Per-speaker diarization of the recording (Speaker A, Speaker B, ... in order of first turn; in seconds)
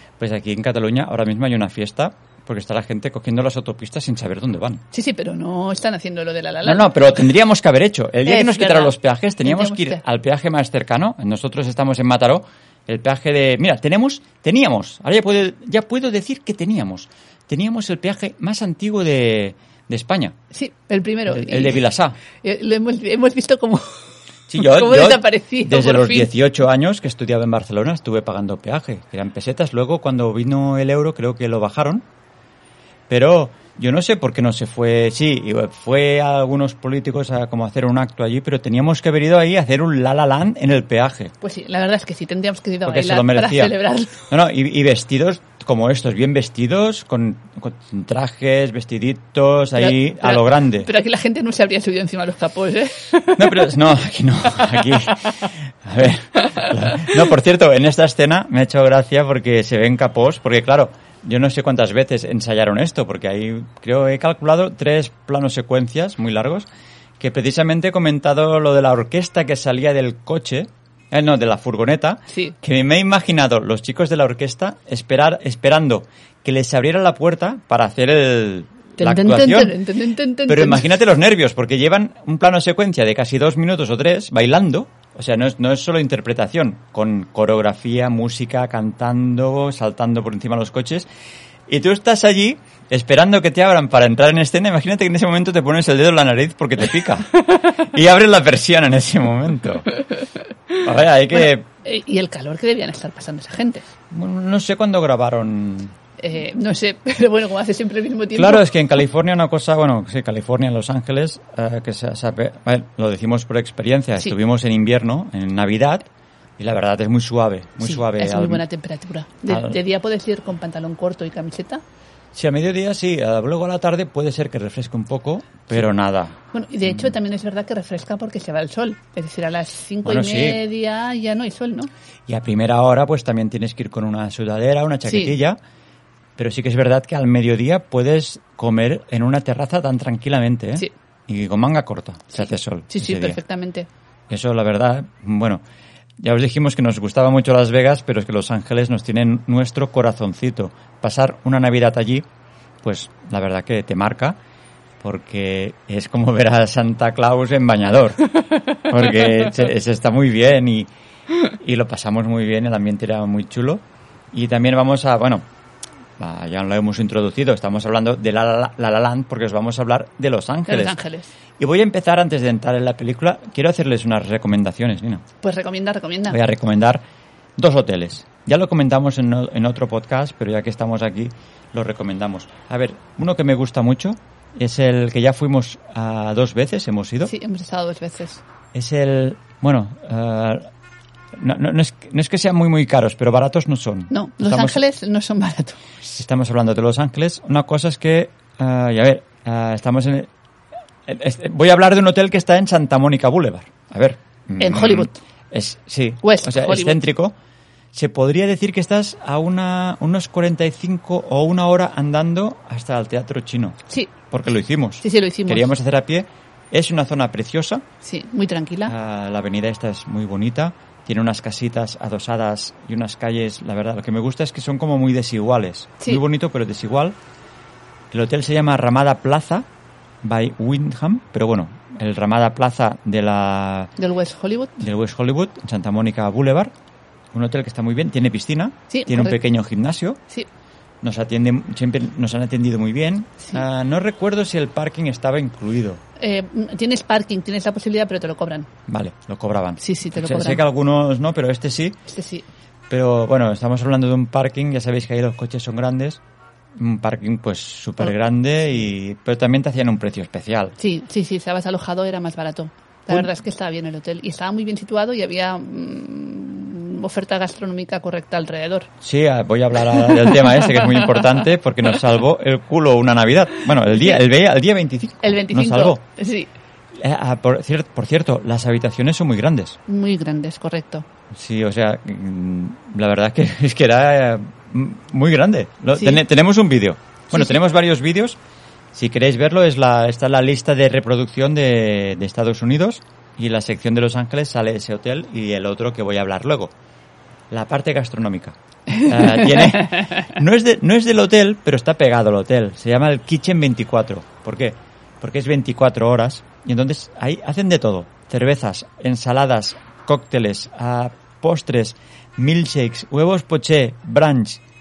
Speaker A: 0.2-4.8, 6.6-20.4, 21.3-22.2, 24.5-32.0, 33.1-41.3, 42.8-50.9, 53.4-66.7, 67.2-79.8, 80.5-91.1, 91.7-99.9, 100.8-101.7, 104.1-106.0, 108.3-118.6, 119.5-119.8, 122.3-127.2, 130.0-130.6, 132.3-135.6, 136.4-143.4, 144.3-145.6, 146.2-152.3, 152.8-154.4, 155.0-158.2, 158.8-160.9, 161.5-165.5, 166.2-171.0, 171.6-175.2, 176.3-177.1, 177.6-187.3, 188.7-190.7, 191.3-194.8, 196.1-200.3, 201.1-207.4, 207.9-213.8, 214.3-217.8, 218.9-227.2, 228.1-229.7, 230.2-233.9, 234.8-236.7, 237.3-240.2, 241.0-246.0, 248.9-252.0, 252.9-256.2, 256.8-260.8, 269.0-276.0, 276.9-279.8, 281.3-288.4, 288.9-296.7, 297.5-314.6
Speaker B: 4.9-7.0, 8.3-10.0, 20.5-21.9, 22.4-24.0, 24.5-26.3, 41.4-44.3, 49.8-53.8, 54.6-55.3, 72.3-72.5, 79.0-80.9, 101.4-103.8, 106.2-108.7, 117.8-121.8, 126.5-131.9, 135.1-135.4, 142.3-143.9, 170.7-171.3, 175.4-176.4, 187.2-188.4, 194.1-195.8, 204.6-205.2, 206.2-207.0, 215.0-215.7, 218.0-218.9, 234.0-234.8, 238.9-239.4, 246.2-248.7, 249.8-250.6, 252.1-252.4, 260.8-268.9, 270.1-271.2, 273.9-274.2, 275.2-276.5, 279.9-281.1, 286.0-286.2, 298.9-300.2